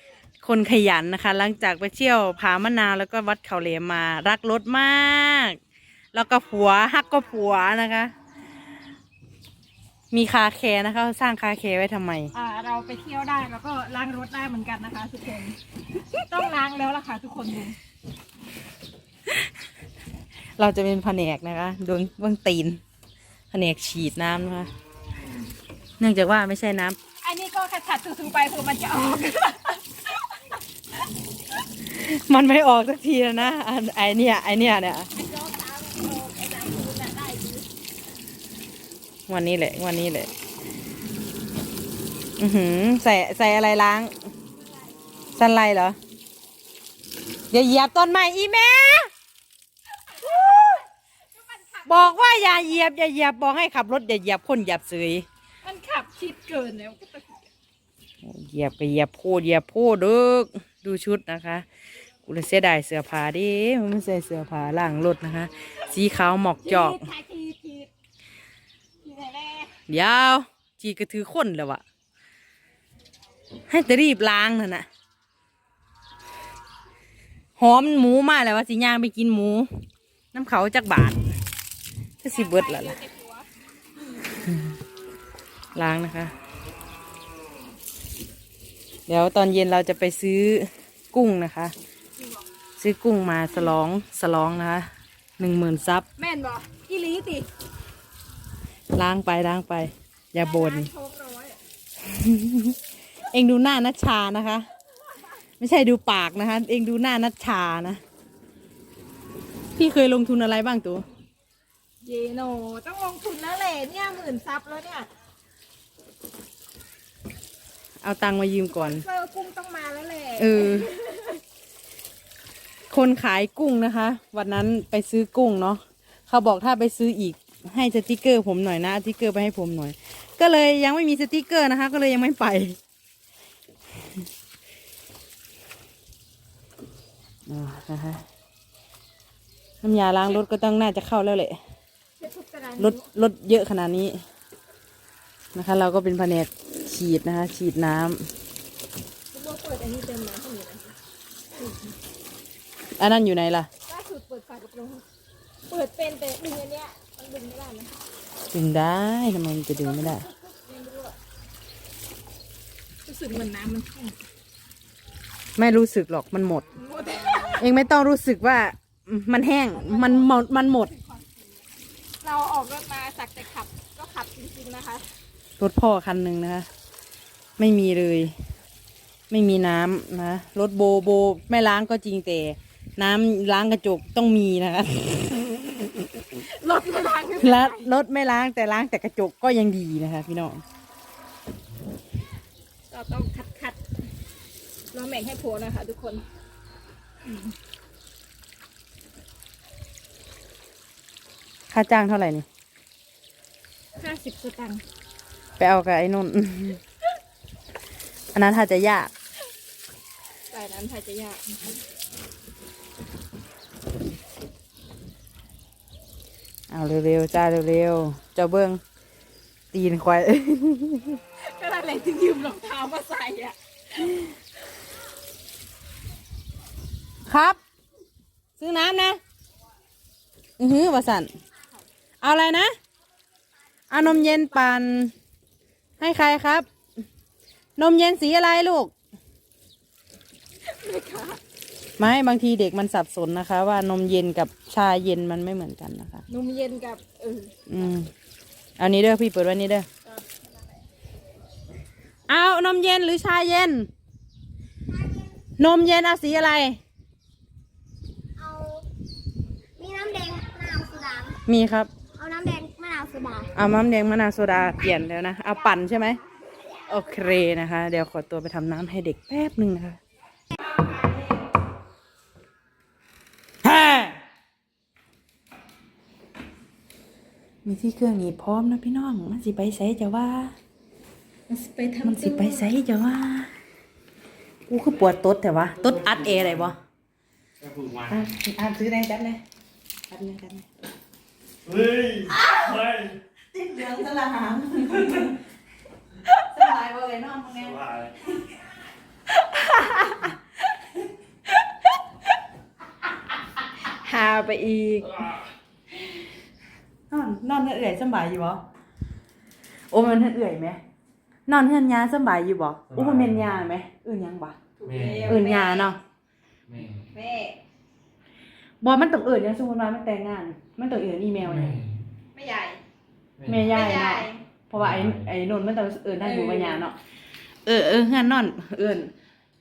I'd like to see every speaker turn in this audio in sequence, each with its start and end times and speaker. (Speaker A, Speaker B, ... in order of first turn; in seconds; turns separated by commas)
Speaker A: 0.4-5.6, Speaker A: 6.1-8.1, Speaker A: 10.1-12.3, Speaker B: 12.3-17.8, Speaker A: 20.6-22.8, Speaker A: 23.5-24.7, Speaker A: 26.0-27.0, Speaker B: 27.2-30.6, Speaker A: 31.8-35.1, Speaker B: 35.1-37.6, Speaker A: 39.3-40.3, Speaker A: 42.4-44.1, Speaker A: 45.4-46.0, Speaker A: 47.5-49.1, Speaker B: 50.1-52.8, Speaker A: 51.8-55.2, Speaker B: 55.6-57.4, Speaker A: 58.2-61.6, Speaker A: 62.2-67.0, Speaker B: 66.6-67.9, Speaker B: 69.0-69.7, Speaker A: 69.9-71.8, Speaker A: 73.7-74.8, Speaker A: 77.6-79.7, Speaker A: 80.3-81.2, Speaker A: 82.2-83.0, Speaker B: 82.3-83.5, Speaker A: 85.7-86.3, Speaker A: 89.1-91.7, Speaker A: 92.8-96.0, Speaker B: 96.2-97.5, Speaker A: 98.9-100.9, Speaker B: 100.4-101.6, Speaker A: 102.0-104.7, Speaker A: 105.6-108.0, Speaker A: 109.8-111.0, Speaker B: 112.0-115.1, Speaker A: 118.0-119.0, Speaker B: 118.7-121.4, Speaker A: 120.4-120.9, Speaker A: 122.9-132.8, Speaker A: 137.5-138.2, Speaker A: 139.8-141.6, Speaker B: 142.2-143.1, Speaker A: 142.8-144.2, Speaker A: 145.5-148.3, Speaker B: 149.3-150.9, Speaker B: 151.5-151.9, Speaker A: 153.0-153.7, Speaker B: 153.9-155.0, Speaker B: 155.7-157.9, Speaker A: 158.5-160.2, Speaker B: 159.8-161.2, Speaker B: 163.1-164.2, Speaker A: 165.6-166.6, Speaker B: 166.7-167.7, Speaker A: 167.6-170.9, Speaker B: 169.7-171.4, Speaker B: 172.2-175.1, Speaker A: 175.6-176.7, Speaker A: 177.6-178.3, Speaker A: 179.3-185.5, Speaker B: 186.3-187.9, Speaker A: 187.4-190.6, Speaker B: 192.9-193.8, Speaker B: 194.9-196.2, Speaker A: 201.7-202.4, Speaker B: 203.9-204.8, Speaker A: 205.6-206.8, Speaker A: 208.3-209.1, Speaker B: 210.5-211.8, Speaker A: 216.7-218.8, Speaker A: 219.7-221.2, Speaker B: 221.4-223.6, Speaker A: 227.3-227.6, Speaker A: 228.6-229.2, Speaker A: 230.6-231.3, Speaker A: 232.2-232.7, Speaker A: 233.9-235.1, Speaker A: 236.0-236.7, Speaker A: 237.8-238.9, Speaker B: 240.7-241.4, Speaker A: 242.0-246.2, Speaker B: 246.3-247.5, Speaker A: 247.7-248.1, Speaker A: 248.8-249.9, Speaker B: 250.0-250.8, Speaker A: 252.3-253.9, Speaker A: 255.6-256.8, Speaker C: 258.4-258.8, Speaker C: 259.8-261.4, Speaker A: 261.4-261.9, Speaker C: 262.2-263.5, Speaker A: 263.5-266.2, Speaker A: 266.8-270.0, Speaker B: 270.7-271.2, Speaker A: 273.6-274.1, Speaker A: 277.6-280.5, Speaker B: 281.5-282.7, Speaker A: 282.0-283.5, Speaker A: 284.7-286.8, Speaker D: 287.6-288.1, Speaker A: 288.1-289.4, Speaker A: 290.1-290.7, Speaker D: 291.7-292.3, Speaker A: 292.2-295.4, Speaker A: 296.3-298.3, Speaker B: 299.5-300.1, Speaker B: 303.9-305.4, Speaker A: 307.1-308.6, Speaker A: 309.9-310.8, Speaker A: 311.5-314.6, Speaker D: 312.9-313.4, Speaker B: 314.8-315.9, Speaker D: 314.8-315.4, Speaker A: 315.2-316.0, Speaker D: 316.7-317.1, Speaker B: 317.1-317.6, Speaker A: 318.8-321.8, Speaker D: 321.4-322.0, Speaker B: 322.3-322.8, Speaker D: 323.4-323.8, Speaker A: 323.4-327.0, Speaker B: 323.7-324.4, Speaker D: 324.7-325.3, Speaker B: 326.2-326.8, Speaker A: 327.6-329.1